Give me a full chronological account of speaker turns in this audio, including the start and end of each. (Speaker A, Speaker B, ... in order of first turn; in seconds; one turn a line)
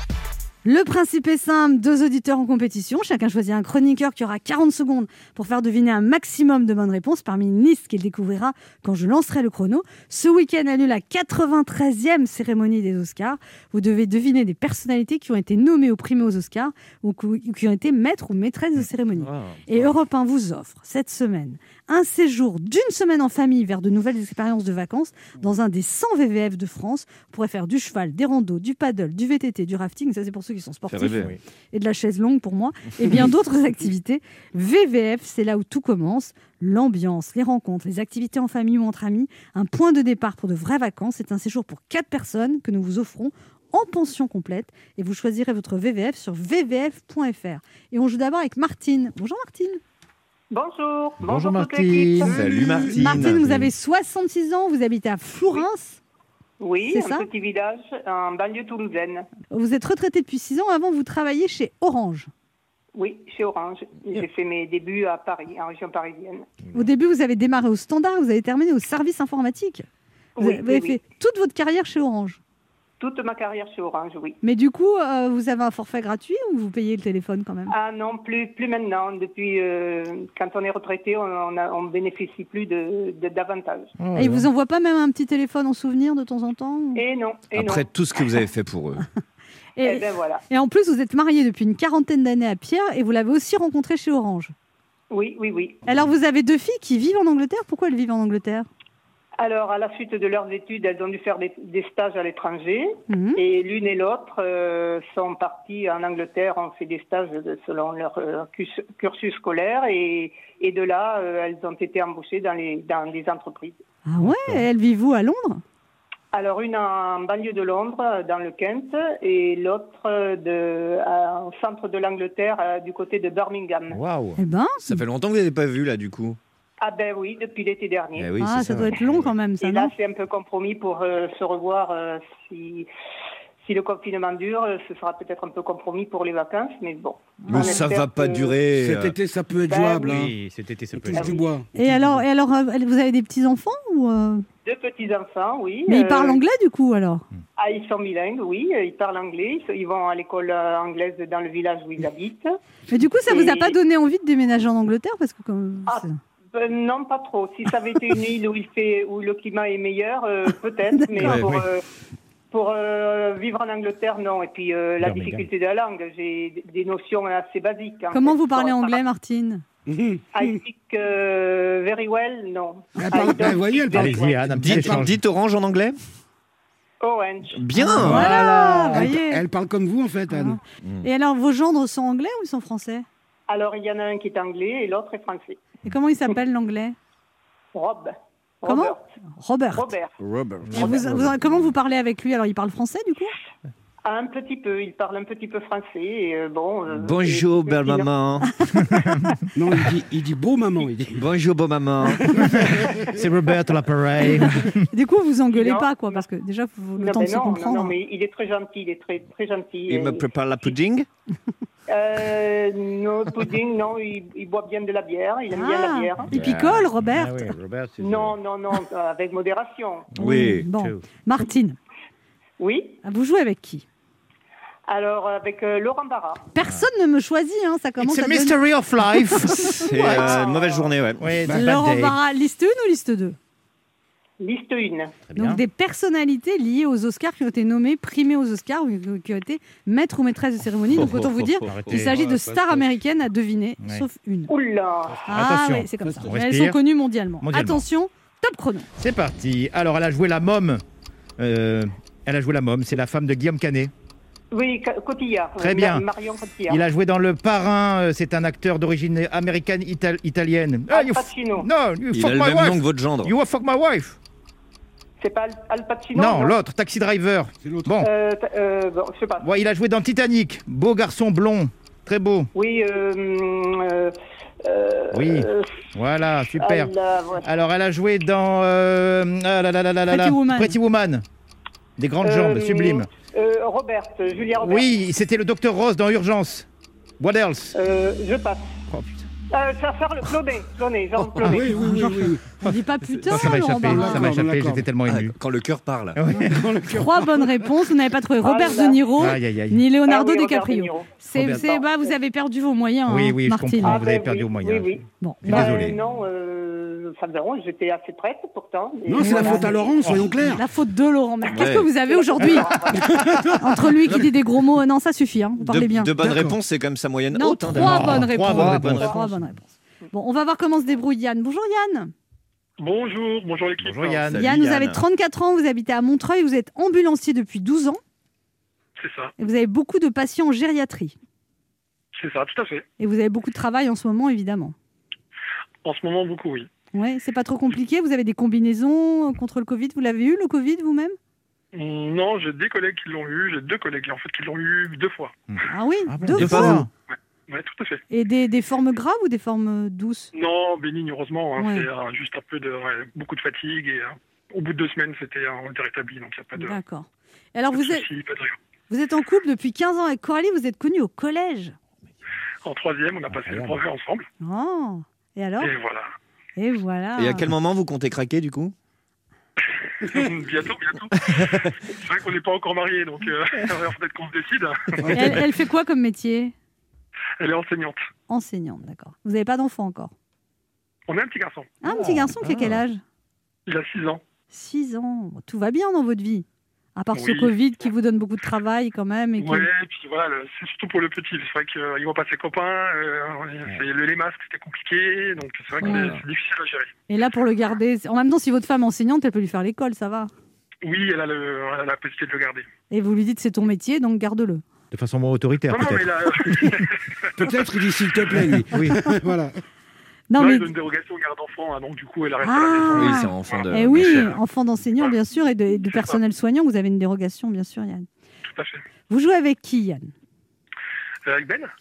Speaker A: 0.6-49.8
Speaker B: 19.2-19.9
Speaker B: 30.9-31.3
Speaker C: 50.5-52.4
Speaker D: 51.2-52.3
Speaker E: 52.2-53.0
Speaker B: 52.3-53.7
Speaker A: 52.9-56.0
Speaker C: 56.6-59.3
Speaker A: 56.9-57.3
Speaker A: 59.5-62.3
Speaker C: 63.0-66.5
Speaker A: 66.7-69.8
Speaker C: 70.4-71.0
Speaker A: 70.4-72.4
Speaker C: 73.0-74.4
Speaker A: 74.4-77.7
Speaker C: 77.7-83.9
Speaker D: 84.0-84.5
Speaker A: 84.2-87.0
Speaker C: 86.9-87.9
Speaker B: 87.5-89.0
Speaker A: 89.8-94.5
Speaker C: 89.8-90.4
Speaker C: 95.1-95.8
Speaker A: 95.8-98.7
Speaker C: 99.4-113.8
Speaker A: 103.1-103.4
Speaker A: 114.0-115.6
Speaker D: 114.2-114.6
Speaker C: 116.3-124.0
Speaker D: 123.9-124.4
Speaker A: 124.4-125.0
Speaker B: 124.8-126.4
Speaker C: 126.8-128.3
Speaker B: 128.2-129.2
Speaker A: 128.4-129.9
Speaker C: 129.6-132.9
Speaker C: 133.6-138.6
Speaker A: 137.4-137.8
Speaker B: 137.5-139.2
Speaker E: 138.7-140.3
Speaker C: 139.7-140.3
Speaker D: 140.0-141.4
Speaker E: 141.0-141.7
Speaker C: 141.1-141.4
Speaker A: 141.7-144.4
Speaker C: 144.6-146.4
Speaker A: 145.9-147.2
Speaker C: 147.6-152.6
Speaker A: 152.9-156.2
Speaker C: 153.3-153.8
Speaker C: 155.9-161.8
Speaker A: 161.0-161.4
Speaker D: 161.2-161.6
Speaker C: 162.5-169.0
Speaker D: 165.0-165.5
Speaker A: 168.1-169.6
Speaker E: 169.9-170.5
Speaker C: 170.3-174.6
Speaker E: 173.0-174.3
Speaker D: 173.9-175.2
Speaker B: 174.6-175.9
Speaker C: 177.0-177.6
Speaker B: 177.5-178.3
Speaker A: 177.7-179.4
Speaker E: 177.9-180.6
Speaker A: 180.3-183.0
Speaker C: 183.5-185.6
Speaker A: 185.8-186.9
Speaker C: 187.7-189.0
Speaker A: 188.7-189.9
Speaker C: 189.7-190.1
Speaker D: 190.6-191.1
Speaker A: 190.7-193.3
Speaker C: 194.0-198.1
Speaker B: 196.9-198.5
Speaker A: 198.6-199.0
Speaker D: 198.9-199.3
Speaker E: 199.5-201.2
Speaker B: 201.1-202.5
Speaker E: 202.2-203.0
Speaker D: 202.5-204.8
Speaker A: 204.2-207.9
Speaker C: 205.5-206.2
Speaker C: 207.0-210.7
Speaker B: 209.9-211.1
Speaker C: 211.9-216.4
Speaker A: 215.5-217.5
Speaker B: 216.3-216.9
Speaker D: 217.1-218.3
Speaker C: 218.0-220.1
Speaker B: 220.2-220.7
Speaker A: 220.2-221.8
Speaker D: 220.7-221.0
Speaker C: 222.6-223.0
Speaker A: 223.0-223.8
Speaker C: 224.9-226.4
Speaker A: 226.5-228.6
Speaker D: 228.0-229.9
Speaker A: 229.3-230.4
Speaker B: 229.8-231.3
Speaker C: 230.0-230.9
Speaker D: 231.2-232.2
Speaker A: 231.5-233.4
Speaker C: 234.4-235.1
Speaker D: 235.3-235.6
Speaker A: 235.3-244.5
Speaker D: 241.7-242.2
Speaker E: 241.9-242.9
Speaker D: 243.8-244.1
Speaker C: 244.5-245.2
Speaker D: 245.2-246.8
Speaker A: 245.3-248.9
Speaker E: 246.0-246.3
Speaker D: 247.4-247.8
Speaker D: 249.0-250.8
Speaker D: 251.4-253.9
Speaker C: 254.5-256.8
Speaker D: 255.6-256.0
Speaker D: 256.7-264.2
Speaker C: 260.9-261.7
Speaker B: 262.1-263.3
Speaker C: 265.2-266.5
Speaker D: 266.1-268.1
Speaker E: 267.6-267.9
Speaker C: 268.0-269.5
Speaker D: 269.4-272.5
Speaker C: 272.5-275.7
Speaker D: 275.1-281.2
Speaker C: 276.6-277.5
Speaker A: 280.1-280.7
Speaker D: 282.0-283.1
Speaker C: 282.2-284.9
Speaker D: 284.6-286.7
Speaker D: 287.2-287.8
Speaker C: 287.7-288.6
Speaker D: 288.9-289.2
Speaker C: 289.5-291.8
Speaker E: 291.4-292.5
Speaker A: 291.9-294.3
Speaker D: 293.3-295.4
Speaker E: 293.4-294.9
Speaker B: 295.0-296.2
Speaker D: 296.1-296.6
Speaker E: 296.4-297.7
Speaker A: 296.9-304.0
Speaker C: 298.4-299.0
Speaker D: 299.2-299.9
Speaker C: 300.0-301.9
Speaker D: 301.3-301.6
Speaker D: 303.1-304.9
Speaker C: 303.8-310.1
Speaker A: 305.2-305.8
Speaker D: 305.4-305.9
Speaker E: 309.1-310.6
Speaker A: 309.3-309.6
Speaker A: 310.4-312.8
Speaker B: 311.5-311.9
Speaker C: 312.0-313.4
Speaker E: 313.0-313.6
Speaker A: 313.6-316.1
Speaker B: 315.6-319.4
Speaker E: 316.2-316.6
Speaker A: 317.3-322.1
Speaker D: 317.7-319.2
Speaker F: 322.8-324.3
Speaker D: 323.8-324.6
Speaker B: 324.3-325.0
Speaker A: 324.3-328.0
Speaker F: 329.0-329.3
Speaker A: 329.4-331.1
Speaker F: 332.1-332.8
Speaker A: 333.0-334.7
Speaker F: 335.8-336.7
Speaker A: 336.9-341.1
Speaker F: 341.7-345.3
Speaker D: 345.5-346.9
Speaker A: 345.7-346.9
Speaker B: 346.3-346.8
Speaker F: 347.1-348.0
Speaker A: 348.1-350.3
Speaker F: 350.3-356.8
Speaker A: 351.6-351.9
Speaker A: 356.6-358.1
Speaker F: 357.7-358.6
Speaker A: 358.9-361.8
Speaker F: 362.6-364.2
Speaker A: 364.4-365.7
Speaker F: 365.6-366.1
Speaker A: 366.6-367.5
Speaker B: 367.1-368.7
Speaker F: 370.0-375.2
Speaker E: 375.0-375.4
Speaker A: 375.1-376.5
Speaker F: 377.4-378.0
Speaker A: 378.3-380.1
Speaker F: 381.1-381.8
Speaker A: 381.8-383.0
Speaker D: 381.9-382.8
Speaker F: 383.7-384.2
Speaker A: 384.5-386.4
Speaker A: 386.9-389.7
Speaker F: 387.1-387.5
Speaker F: 389.4-396.9
Speaker B: 395.8-396.2
Speaker A: 395.8-396.1
Speaker A: 397.1-400.3
Speaker F: 400.8-402.6
Speaker A: 402.9-404.6
Speaker D: 404.9-406.1
Speaker F: 405.7-406.9
Speaker E: 407.4-409.6
Speaker D: 408.7-409.0
Speaker A: 410.3-410.7
Speaker F: 410.4-414.3
Speaker A: 412.4-418.1
Speaker B: 412.9-414.4
Speaker F: 415.9-416.2
Speaker F: 418.5-418.8
Speaker A: 419.1-420.1
Speaker F: 421.2-421.7